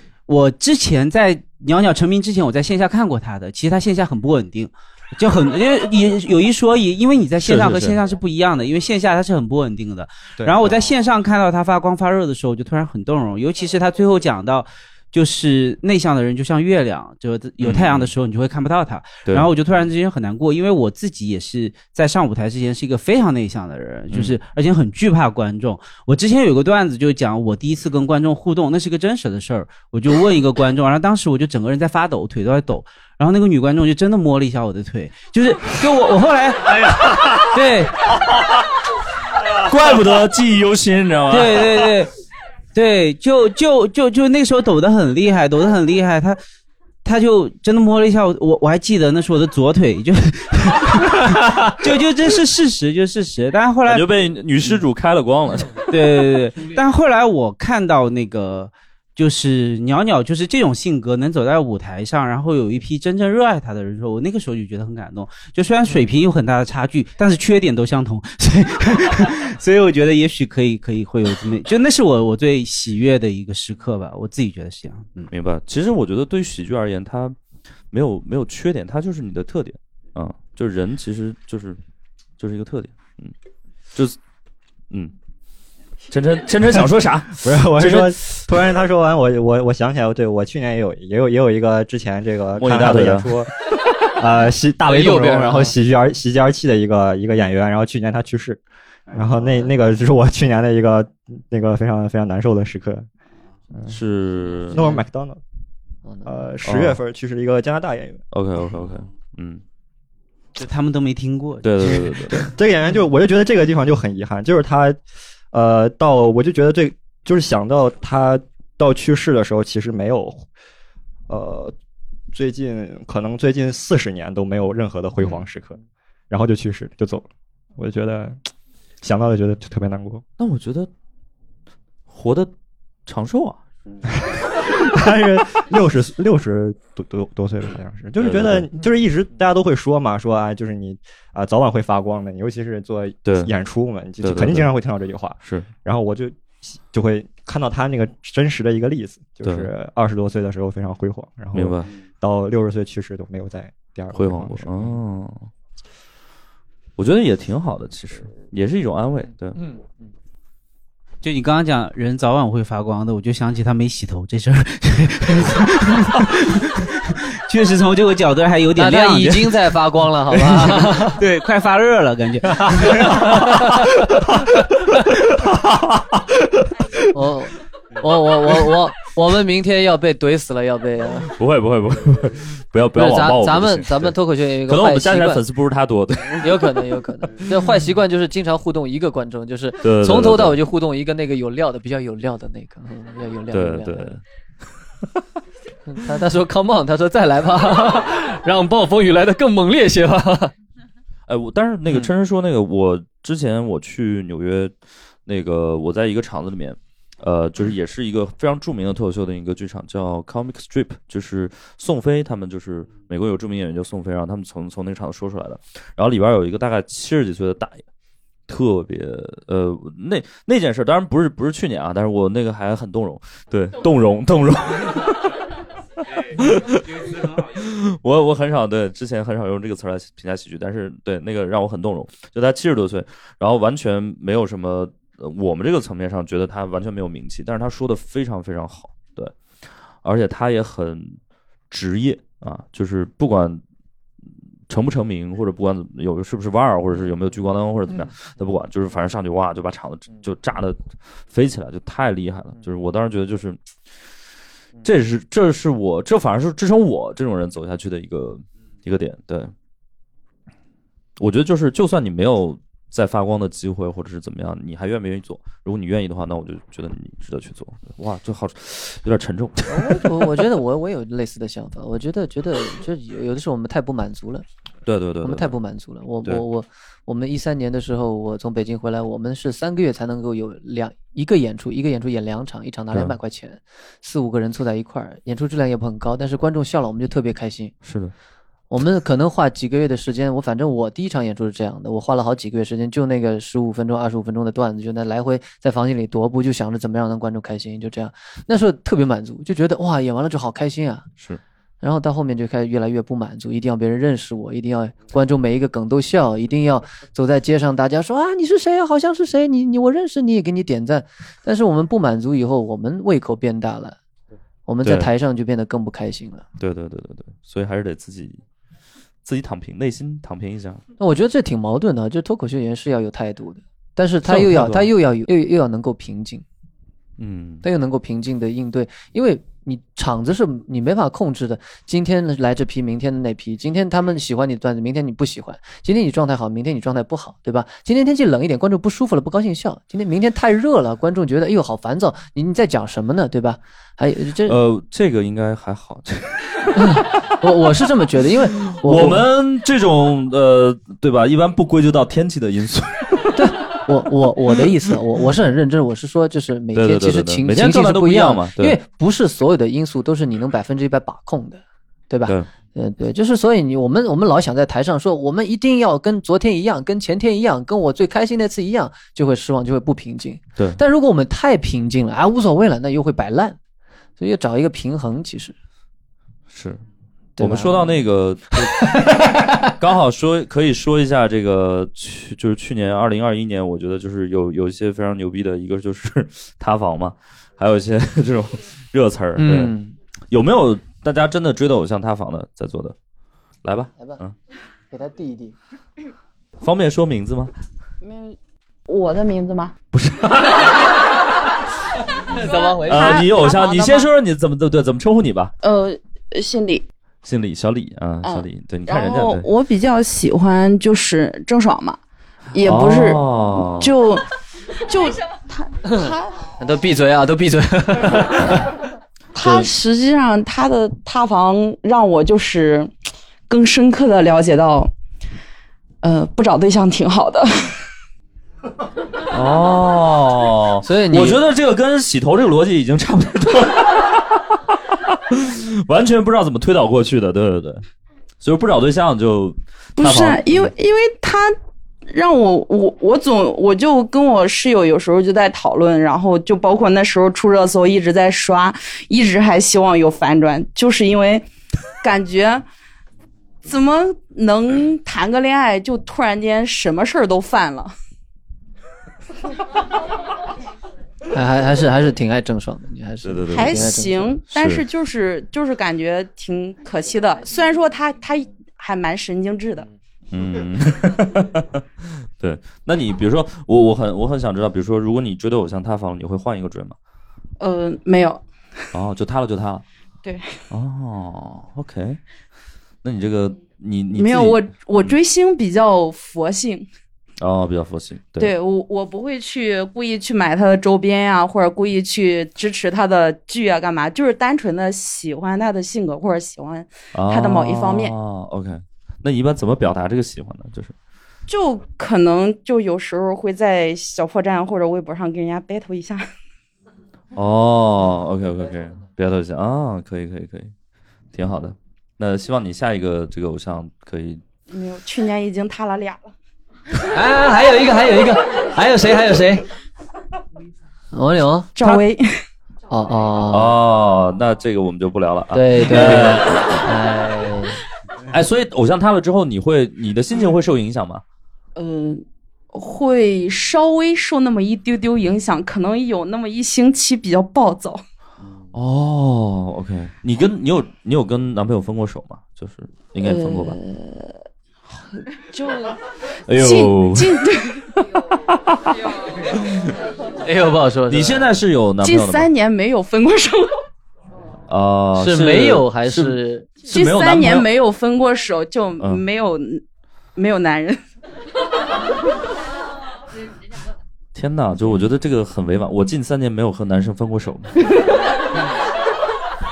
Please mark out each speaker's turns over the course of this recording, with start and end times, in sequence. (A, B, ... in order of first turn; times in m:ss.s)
0:00.3-0:37.9 A
0:07.4-0:08.0 B
0:17.6-0:18.1 B
0:24.1-0:24.4 B
0:39.6-0:41.9 B
0:41.3-0:42.1 A
0:42.8-0:46.4 A
0:47.0-0:54.1 A
0:53.9-0:55.8 B
0:55.9-1:15.3 A
1:15.3-1:17.4 B
1:17.9-1:21.8 B
1:22.4-1:23.3 B
1:26.1-1:28.2 B
1:27.4-1:38.6 C
1:32.6-1:33.5 B
1:34.9-1:35.7 D
1:39.1-1:43.1 C
1:43.9-1:44.8 B
1:44.7-1:45.4 C
1:46.1-1:46.3 D
1:46.2-1:48.2 C
1:46.7-1:47.0 B
1:48.3-1:49.6 B
1:50.6-1:52.1 A
1:51.6-1:52.5 B
1:51.8-1:55.0 C
1:55.5-2:00.5 C
2:01.3-2:01.8 C
2:02.3-2:05.8 C
2:06.3-2:08.4 C
2:09.0-2:10.2 C
2:10.4-2:10.9 B
2:12.1-2:12.5 B
2:13.1-2:13.6 B
2:14.1-2:35.0 C
2:18.2-2:18.7 B
2:23.2-2:23.5 B
2:24.2-2:24.7 B
2:25.4-2:25.7 B
2:29.4-2:29.7 B
2:31.5-2:31.9 B
2:34.1-2:35.5 B
2:37.0-2:39.6 B
2:39.6-2:39.8 D
2:41.2-2:49.8 A
2:48.8-2:51.2 D
2:50.3-2:54.0 A
2:57.1-3:01.3 D
3:01.3-3:06.9 B
3:03.0-3:05.4 D
3:06.4-3:14.2 D
3:09.8-3:10.6 B
3:13.5-3:14.2 B
3:15.9-3:20.5 D
3:21.3-3:24.7 B
3:25.3-3:37.8 B
3:38.5-3:45.4 B
3:46.3-3:59.3 B
4:00.0-4:01.2 B
4:01.7-4:03.6 B
4:04.7-4:13.6 B
4:14.8-4:19.5 B
4:21.2-4:30.4 B
4:29.7-4:34.4 D
4:34.8-4:35.5 B
4:35.2-4:47.7 D
4:47.8-4:48.1 B
4:48.7-5:01.1 D
5:01.8-5:14.0 D
5:14.7-5:16.4 D
5:14.8-5:15.1 B
5:16.6-5:18.4 B
5:19.2-5:20.8 B
5:21.0-5:26.4 D
5:24.2-5:24.9 B
5:27.2-5:27.6 B
5:27.6-5:44.6 D
5:44.5-5:47.0 B
5:46.8-5:49.2 D
5:48.6-5:53.4 B
5:53.4-6:13.6 D
5:56.7-5:58.8 B
6:14.2-6:15.6 D
6:16.5-6:16.8 B
6:17.4-6:17.9 D
6:17.4-6:29.8 B
6:29.4-6:30.0 D
6:30.3-6:33.0 B
6:33.6-6:34.4 B
6:34.9-6:35.6 D
6:36.6-6:37.5 B
6:38.0-6:39.7 E
6:39.9-6:41.1 B
6:42.4-6:44.1 E
6:42.8-6:45.5 B
6:45.6-6:46.9 E
6:47.2-6:49.5 B
6:48.2-6:52.0 E
6:52.5-6:54.2 E
6:52.6-6:53.9 B
6:54.8-6:56.5 E
6:56.6-6:58.7 D
6:59.4-7:02.9 E
6:59.4-6:59.7 B
7:03.5-7:04.9 E
7:06.0-7:07.8 E
7:09.3-7:14.4 B
7:10.8-7:11.4 D
7:15.1-7:17.8 B
7:18.4-7:20.7 B
7:20.0-7:21.6 E
7:22.1-7:31.5 E
7:32.0-7:32.7 E
7:33.6-7:37.9 E
7:41.3-7:44.4 D
7:43.2-7:43.9 B
7:43.5-7:49.9 E
7:44.5-7:44.8 B
7:50.3-7:57.0 B
7:57.6-7:58.4 E
7:58.9-7:59.8 B
8:00.2-8:00.6 E
8:00.7-8:02.2 B
8:03.0-8:05.2 B
8:04.2-8:06.9 E
8:07.4-8:08.5 B
8:08.4-8:18.1 E
8:17.1-8:21.0 B
8:21.5-8:26.2 E
8:27.3-8:30.7 B
8:31.3-8:34.4 B
8:34.7-8:36.3 E
8:37.1-8:39.6 D
8:41.1-8:41.7 D
8:41.8-8:42.3 E
8:42.9-8:43.8 D
8:43.5-8:46.9 B
8:45.5-8:47.8 D
8:48.3-8:51.2 B
8:51.8-8:58.0 E
8:58.7-9:03.8 B
9:03.2-9:04.4 E
9:05.0-9:06.0 E
9:06.5-9:07.4 B
9:06.6-9:07.9 E
9:08.5-9:09.8 B
9:10.4-9:11.5 D
9:11.1-9:12.5 B
9:12.0-9:13.7 E
9:14.7-9:17.7 B
9:15.2-9:16.7 D
9:16.9-9:19.8 E
9:20.4-9:21.0 E
9:24.4-9:27.8 B